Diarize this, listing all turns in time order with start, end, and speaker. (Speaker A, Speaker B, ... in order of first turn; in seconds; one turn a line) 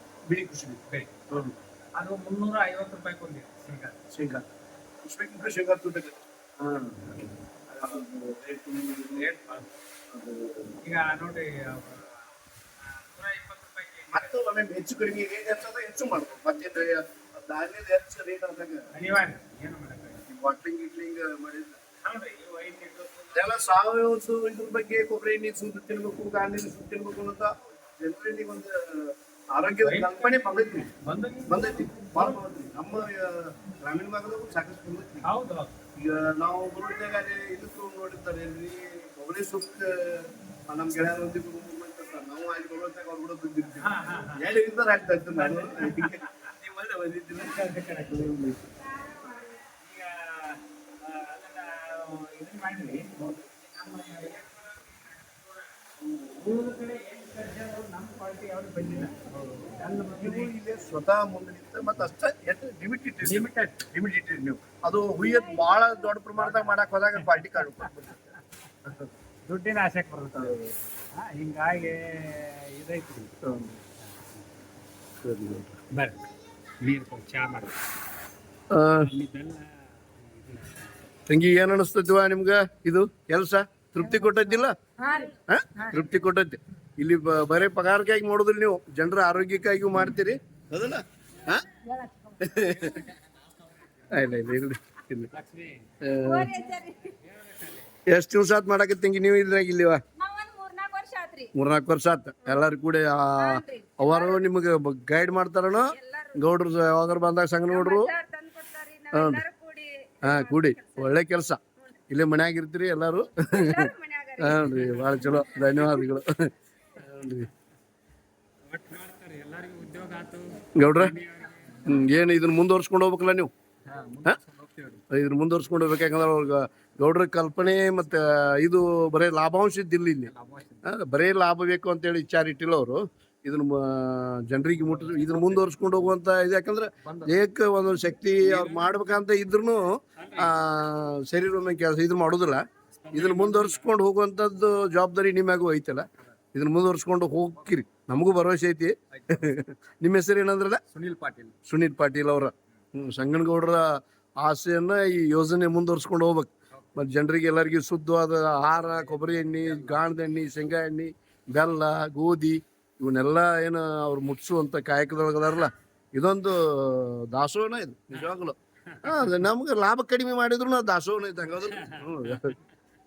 Speaker A: 0.3-1.5
Speaker B: 2.0-4.0
Speaker A: 4.1-4.5
Speaker A: 5.0-9.3
Speaker B: 9.1-9.7
Speaker A: 10.1-10.8
Speaker B: 10.8-14.3
Speaker A: 14.1-18.9
Speaker B: 18.9-20.2
Speaker A: 20.3-21.8
Speaker B: 22.0-23.7
Speaker A: 23.3-30.9
Speaker B: 29.8-32.4
Speaker A: 31.5-35.3
Speaker B: 35.2-35.7
Speaker A: 36.0-48.6
Speaker B: 43.8-44.5
Speaker B: 45.3-46.5
Speaker B: 47.4-48.3
Speaker C: 49.0-49.6
Speaker B: 49.7-60.5
Speaker A: 59.3-69.1
Speaker B: 63.2-63.8
Speaker C: 65.3-65.7
Speaker B: 66.3-68.4
Speaker B: 69.5-70.6
Speaker A: 70.3-70.8
Speaker B: 71.1-73.4
Speaker A: 73.4-73.8
Speaker B: 74.0-74.5
Speaker A: 75.2-75.8
Speaker B: 75.9-76.3
Speaker B: 76.8-77.8
Speaker A: 78.7-79.1
Speaker B: 79.0-81.0
Speaker A: 81.3-84.8
Speaker C: 84.2-84.4
Speaker C: 85.0-86.0
Speaker A: 85.5-91.7
Speaker C: 91.7-92.4
Speaker A: 92.4-93.0
Speaker B: 92.5-94.5
Speaker A: 94.1-95.3
Speaker B: 95.3-95.9
Speaker A: 96.0-96.5
Speaker C: 96.2-97.2
Speaker B: 97.1-97.9
Speaker A: 98.1-100.0
Speaker C: 100.2-101.5
Speaker A: 101.5-108.1
Speaker C: 103.3-104.5
Speaker C: 105.8-106.5
Speaker C: 107.7-111.2
Speaker A: 109.1-109.4
Speaker A: 110.2-117.5
Speaker C: 113.5-116.0
Speaker B: 114.7-115.8
Speaker B: 118.7-122.0
Speaker A: 120.8-121.1
Speaker A: 121.8-123.5
Speaker B: 123.9-125.0
Speaker A: 125.1-130.3
Speaker B: 130.2-130.9
Speaker A: 130.8-150.8
Speaker B: 134.7-136.1
Speaker B: 137.0-137.3
Speaker B: 138.4-138.9
Speaker B: 140.2-140.6
Speaker B: 142.9-143.9
Speaker B: 149.1-149.5
Speaker B: 150.9-151.6
Speaker A: 151.6-172.6
Speaker B: 158.8-160.0
Speaker B: 168.8-169.3
Speaker B: 171.7-172.6